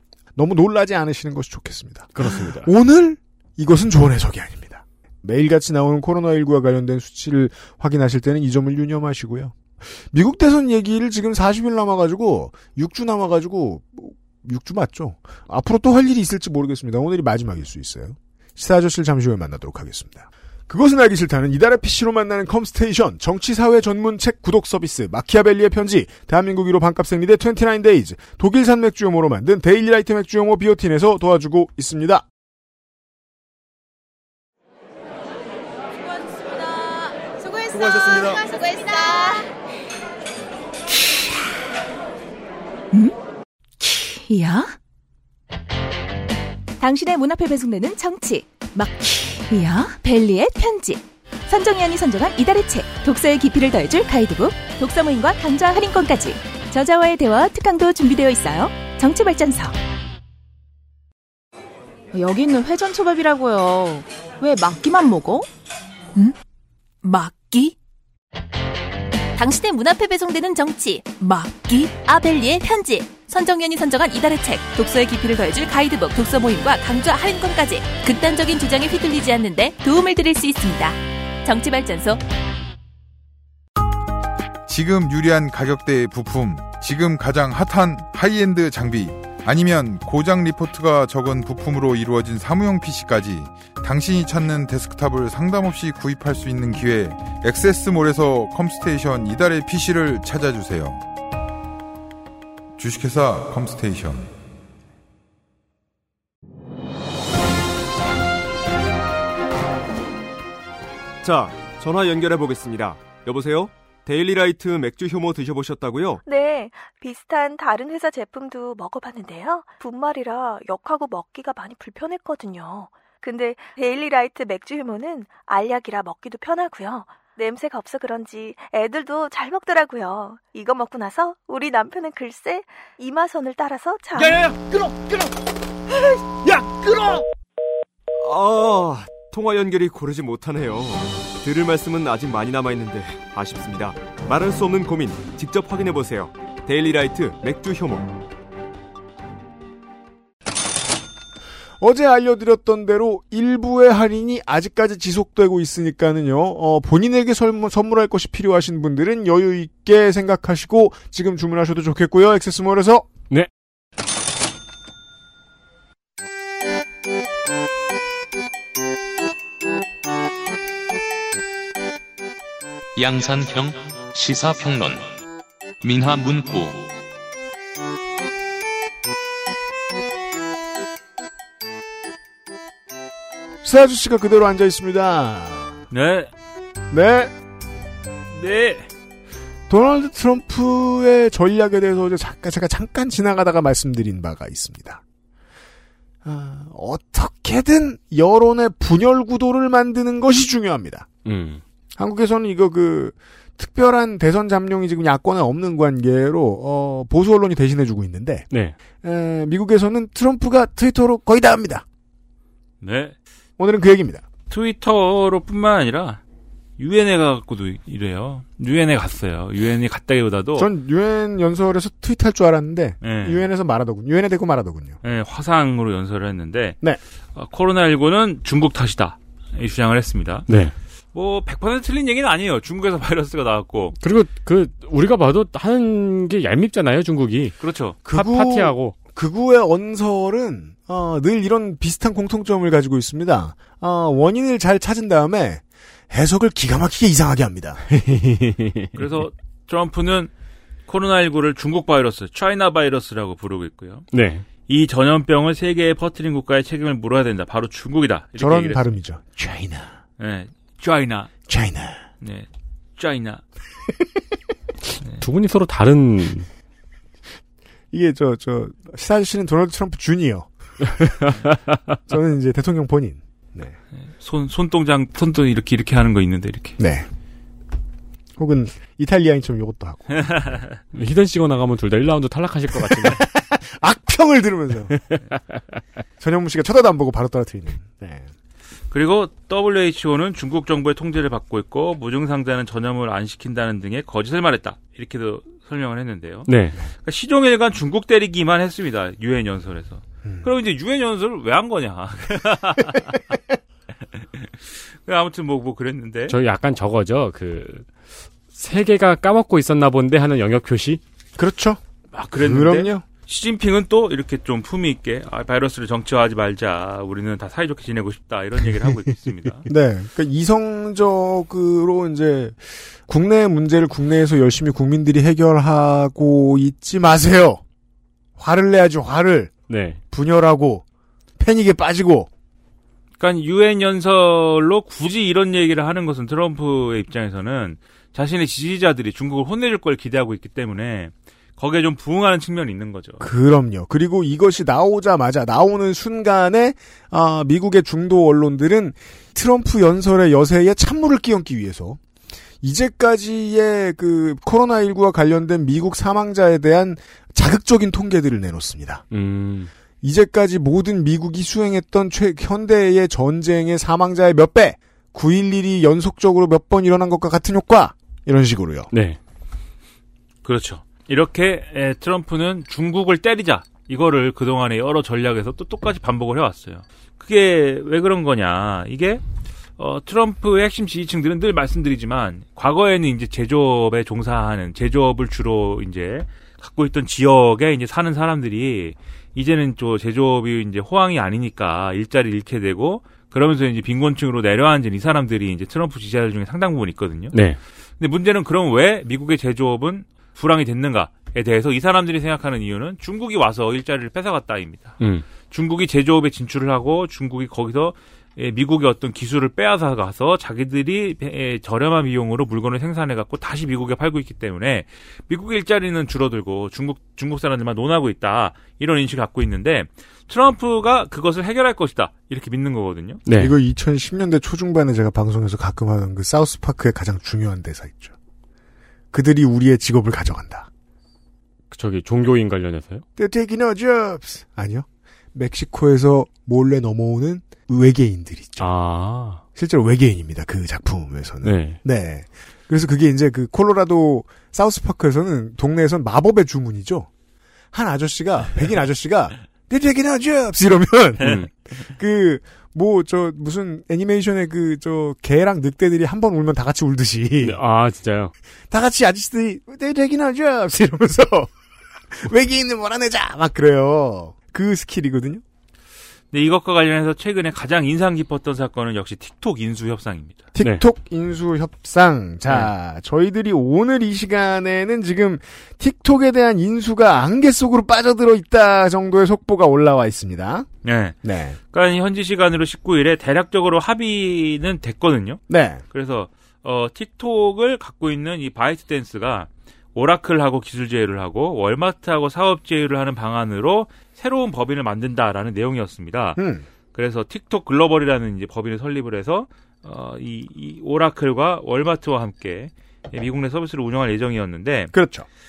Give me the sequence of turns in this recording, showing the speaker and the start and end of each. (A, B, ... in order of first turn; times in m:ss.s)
0:00.4-0:32.2 A
0:02.1-0:02.7 B
0:43.8-0:44.7 C
0:46.8-0:59.7 C
1:02.1-1:05.4 D
1:07.0-1:07.7 C
1:09.4-1:22.2 C
1:24.6-1:41.0 E
1:42.8-1:44.3 E
1:51.2-1:56.2 F
1:56.2-2:14.4 G
2:14.4-2:15.1 F
2:16.6-2:17.2 F
2:18.1-2:28.2 F
2:31.8-2:43.1 A
2:53.0-2:55.1 H
2:55.8-2:56.9 H
3:03.6-3:05.8 A
3:05.9-3:06.3 I
3:06.9-3:07.3 A
3:08.3-3:08.9 I
3:09.7-3:15.0 A
3:16.2-3:21.1 A
3:21.2-3:21.6 B
3:22.0-3:28.5 A
3:29.0-3:31.8 A
3:32.8-3:33.1 I
3:33.6-3:34.2 A
3:34.5-3:36.2 I
3:36.8-3:40.7 I
3:40.6-3:45.0 A
3:43.0-3:43.5 I
3:45.0-3:46.8 I
3:47.3-3:50.5 I
3:50.5-3:50.7 B
3:51.1-3:53.9 I
3:54.0-3:58.9 B
3:57.6-3:58.0 I
3:58.1-4:07.9 A
4:08.0-4:08.9 B
4:08.9-4:10.3 I
4:10.9-4:14.1 I
4:14.1-4:14.4 B
4:14.7-4:18.8 I
4:18.4-4:20.0 A
4:20.2-4:21.3 I
4:21.5-4:22.0 A
4:22.2-4:23.4 I
4:25.2-4:26.5 B
4:27.9-4:31.3 A
4:32.1-4:33.7 A
4:34.0-4:36.8 I
4:36.8-4:37.1 A
4:38.4-4:40.6 A
4:40.1-4:40.7 I
4:40.9-4:43.3 B
4:42.9-4:44.9 A
4:46.2-4:48.3 A
4:48.9-4:56.5 I
4:56.5-4:56.8 B
4:57.0-5:03.2 I
5:05.0-5:06.3 I
5:06.3-5:07.9 B
5:08.5-5:11.0 B
5:11.4-5:11.8 A
5:12.1-5:19.7 I
5:12.4-5:13.0 A
5:19.6-5:27.6 A
5:28.4-5:29.5 A
5:29.7-5:30.0 B
5:30.1-5:30.8 A
5:31.4-5:32.3 A
5:33.2-5:43.2 I
5:43.2-5:52.0 A
5:52.6-5:59.0 A
5:59.1-5:59.7 B
6:00.0-6:08.9 A
6:08.9-6:09.2 B
6:10.4-6:19.2 I
6:19.8-6:37.4 I
6:37.3-6:37.6 B
6:38.0-6:45.0 I
6:45.5-7:03.2 I
7:03.2-7:03.5 B
7:03.4-7:08.1 A
7:09.1-7:10.7 A
7:11.7-7:13.0 B
7:13.2-7:18.7 A
7:18.6-7:19.4 B
7:19.5-7:27.1 A
7:21.4-7:21.8 B
7:27.7-7:37.6 A
7:31.2-7:31.5 I
7:37.4-7:38.3 B
7:38.7-7:41.5 A
7:42.1-7:45.4 A
7:46.3-7:50.4 I
7:50.5-8:00.7 A
7:50.6-7:50.8 B
8:00.8-8:01.2 I
8:01.2-8:01.6 A
8:01.7-8:05.4 I
8:05.5-8:05.8 A
8:05.9-8:16.4 I
8:16.4-8:16.6 A
8:16.9-8:24.9 I
8:24.9-8:25.3 A